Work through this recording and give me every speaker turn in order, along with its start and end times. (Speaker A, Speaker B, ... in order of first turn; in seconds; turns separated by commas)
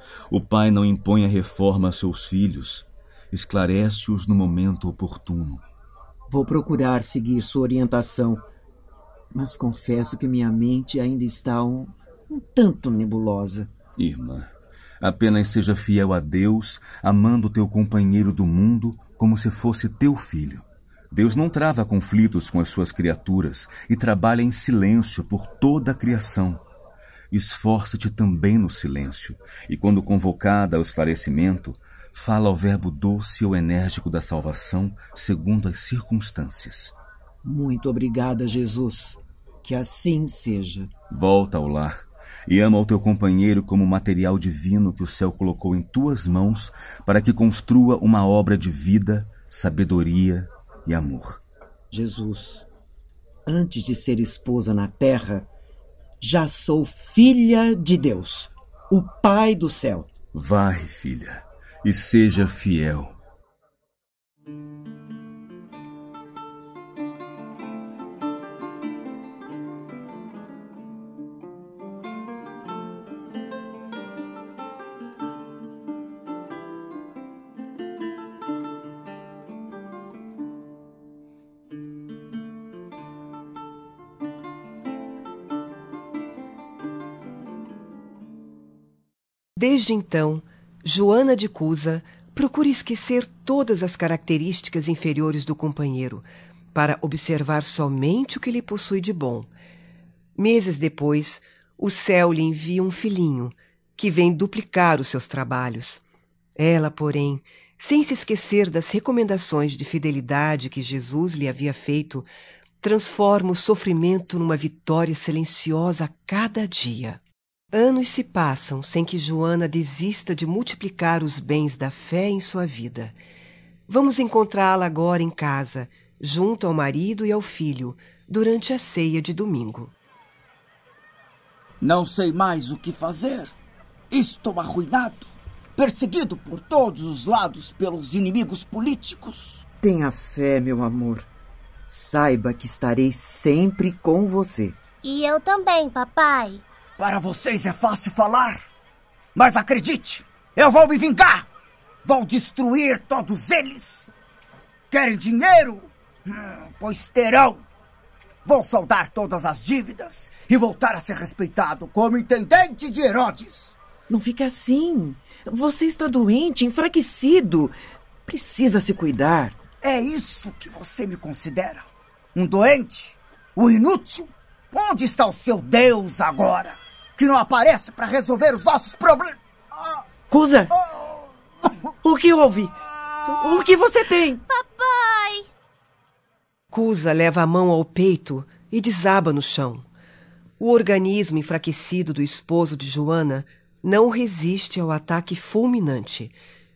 Speaker A: 0.3-5.6, Speaker B: 6.3-8.4, Speaker B: 9.3-13.7, Speaker A: 14.0-26.6, Speaker A: 27.3-36.9, Speaker B: 37.4-40.9, Speaker A: 41.1-51.4, Speaker B: 51.9-52.7, Speaker B: 53.5-55.5, Speaker B: 56.2-60.1, Speaker A: 60.3-63.1, Speaker C: 89.6-99.5, Speaker C: 100.4-106.0, Speaker C: 106.6-112.3, Speaker C: 112.8-117.2, Speaker C: 117.7-123.2, Speaker C: 123.9-129.9, Speaker D: 131.8-133.5, Speaker D: 134.1-139.6, Speaker B: 139.8-141.3, Speaker B: 141.9-144.8, Speaker E: 145.0-146.6, Speaker D: 147.0-148.7, Speaker D: 149.4-151.5, Speaker D: 152.1-154.1, Speaker D: 154.9-157.7, Speaker D: 158.4-163.8, Speaker B: 164.1-167.8, Speaker B: 168.3-169.7, Speaker D: 169.8-179.4, Speaker B: 180.3-180.7, Speaker B: 182.0-182.7, Speaker B: 183.3-184.3, Speaker E: 184.5-185.4, Speaker C: 186.7-189.9, Speaker C: 190.6-196.3